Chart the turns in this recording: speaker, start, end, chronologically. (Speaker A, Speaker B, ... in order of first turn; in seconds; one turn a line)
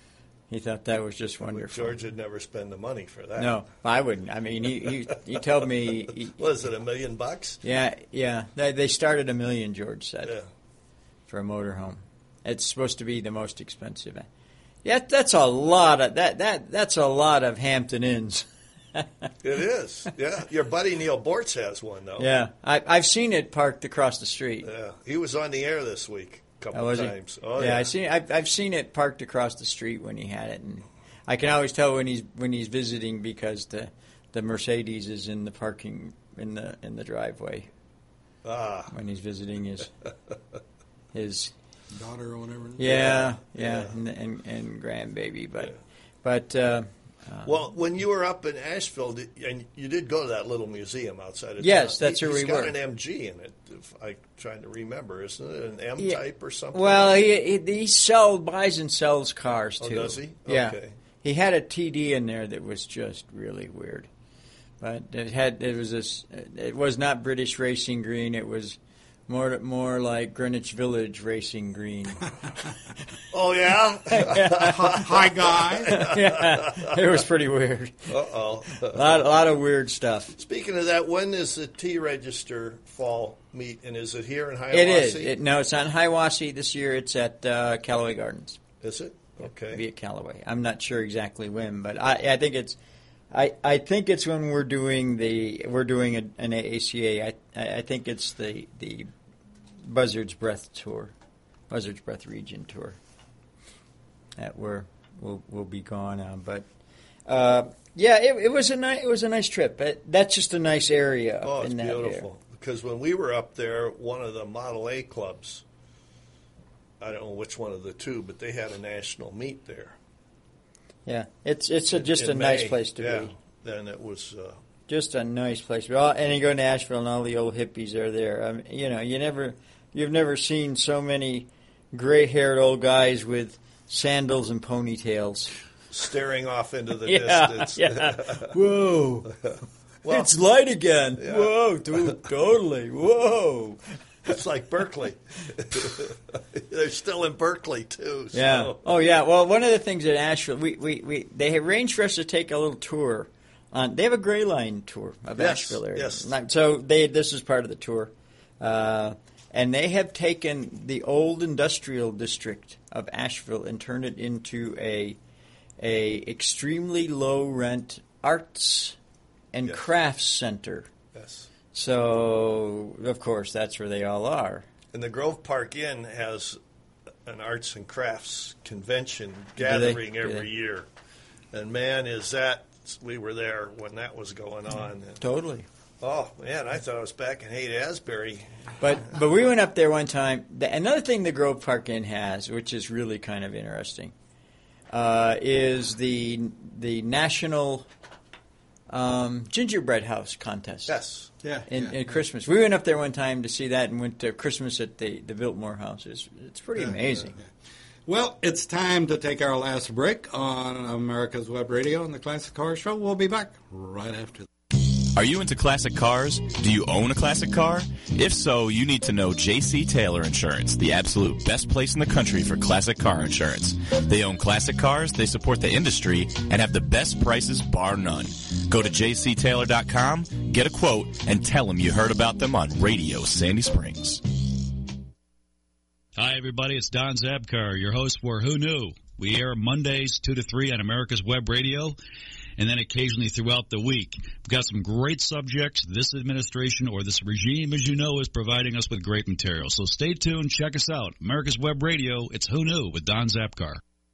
Speaker A: 0.5-2.0
Speaker B: 1.4-3.6
Speaker A: 3.4-6.4
Speaker B: 6.4-7.6
Speaker A: 7.6-10.4
Speaker A: 11.3-14.3
Speaker A: 14.8-19.3
Speaker B: 19.4-22.3
Speaker A: 22.2-24.7
Speaker B: 24.6-27.9
Speaker A: 26.7-37.7
Speaker B: 38.4-38.9
Speaker A: 38.9-39.9
Speaker A: 41.1-41.5
Speaker C: 41.9-42.9
Speaker A: 42.8-47.5
Speaker B: 42.8-43.9
Speaker B: 47.5-57.1
Speaker A: 51.6-52.8
Speaker A: 56.7-64.1
Speaker B: 59.8-61.0
Speaker A: 64.8-68.8
Speaker A: 69.3-72.3
Speaker B: 73.3-77.0
Speaker A: 74.1-75.1
Speaker C: 74.6-76.0
Speaker A: 75.9-78.1
Speaker B: 78.1-79.2
Speaker A: 78.7-80.4
Speaker B: 80.4-85.3
Speaker A: 84.7-88.6
Speaker B: 88.8-89.8
Speaker A: 89.4-92.8
Speaker A: 93.3-99.1
Speaker A: 99.8-101.1
Speaker A: 101.7-103.0
Speaker A: 104.4-106.7
Speaker A: 107.3-112.3
Speaker B: 111.4-115.6
Speaker B: 117.0-120.0
Speaker A: 121.1-123.3
Speaker B: 121.9-124.6
Speaker A: 124.9-135.5
Speaker B: 135.9-138.5
Speaker A: 137.1-139.3
Speaker B: 139.4-140.3
Speaker A: 140.1-143.8
Speaker B: 141.2-142.2
Speaker B: 144.3-148.8
Speaker A: 148.3-165.2
Speaker B: 155.4-156.3
Speaker A: 165.8-169.0
Speaker A: 169.5-170.9
Speaker B: 171.1-171.5
Speaker A: 171.7-174.7
Speaker B: 174.9-176.6
Speaker B: 177.3-180.9
Speaker A: 179.6-180.4
Speaker B: 181.5-185.2
Speaker A: 185.2-185.7
Speaker B: 186.0-188.5
Speaker A: 188.8-194.1
Speaker A: 194.9-197.9
Speaker A: 198.9-201.0
Speaker B: 200.9-201.3
Speaker C: 201.4-202.0
Speaker A: 201.7-207.4
Speaker C: 208.1-214.5
Speaker D: 215.0-234.2
Speaker E: 236.2-241.9
Speaker E: 242.6-253.8